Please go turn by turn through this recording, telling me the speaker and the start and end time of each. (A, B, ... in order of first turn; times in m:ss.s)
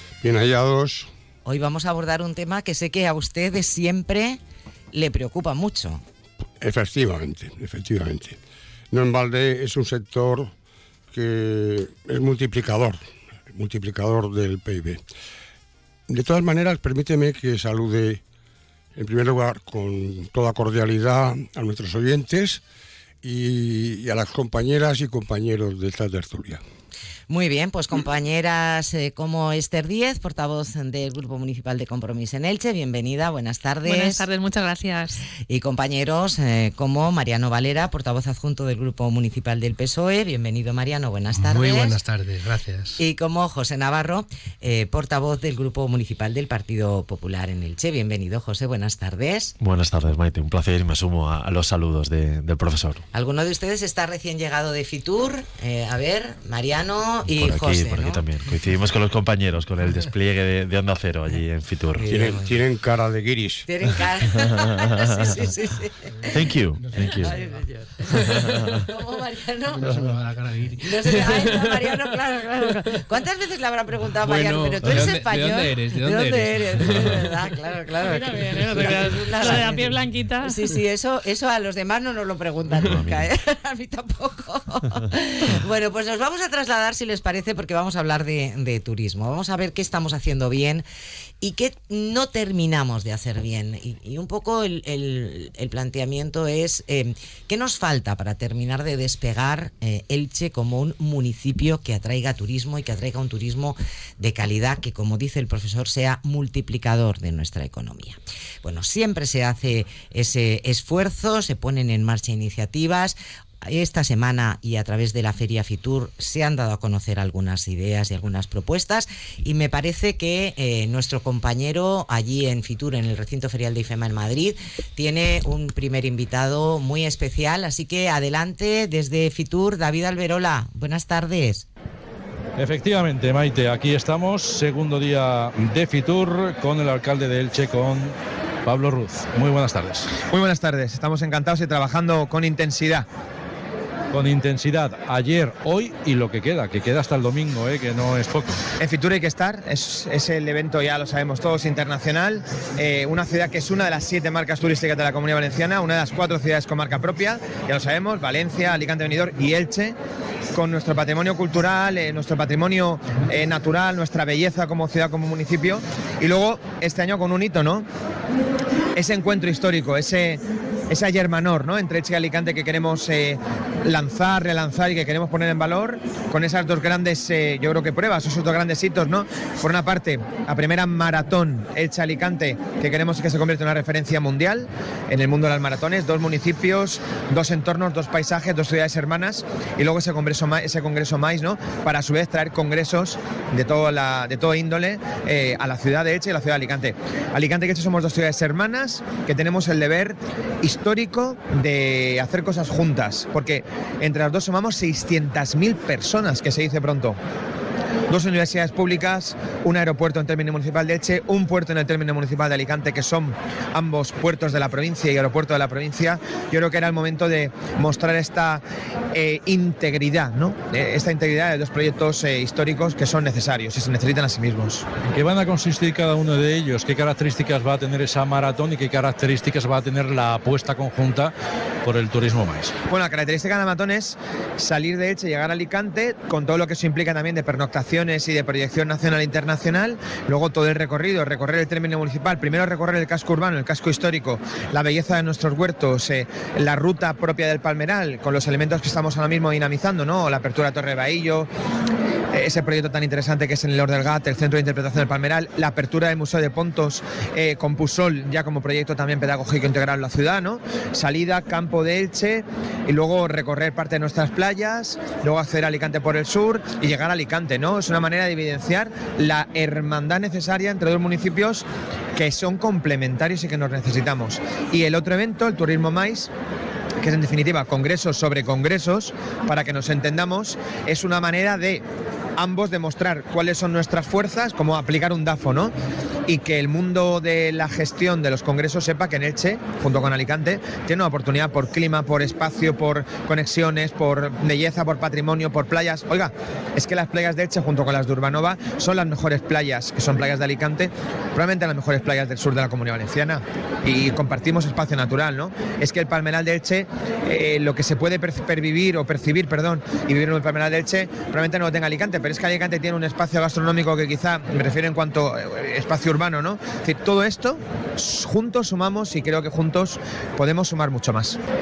0:00.2-0:01.1 A
0:01.4-0:04.4 B
0:04.9-0:06.0 B
0:06.6-0:08.4 A
0:08.9-0:10.5 A
0:11.1-0:13.0 A
0:13.5-0:15.0 A
0:16.1-0:18.2 A
0:18.9-0:22.6 A
0:23.2-0:26.6 A
0:27.3-0:34.2 B
0:33.8-0:35.2 C
0:35.5-0:42.0 B
0:41.3-0:43.0 D
0:43.0-0:49.5 B
0:49.6-0:53.0 E
0:53.1-0:58.2 B
0:57.3-1:02.1 E
1:02.0-1:02.6 B
1:02.1-1:03.7 A
1:03.6-1:06.5 B
1:06.2-1:08.9 D
1:06.3-1:07.3 E
1:07.2-1:09.9 B
1:08.4-1:08.8 E
1:09.7-1:12.0 D
1:10.8-1:19.9 B
1:14.2-1:17.5 D
1:18.1-1:20.6 C
1:18.1-1:20.0 D
1:20.4-1:30.8 B
1:22.7-1:23.3 E
1:31.4-2:11.6 B
2:12.6-2:20.1 F
2:20.2-2:23.0 G
2:24.1-2:28.6 F
2:28.8-2:40.0 G
2:40.5-2:47.8 G
2:49.0-3:27.2 G
3:28.1-3:44.9 G
3:45.1-3:52.7 F
3:52.9-4:11.5 G
4:12.3-4:36.3 G
4:37.0-4:41.8 G
4:42.4-4:45.7 G
4:46.3-5:21.4 G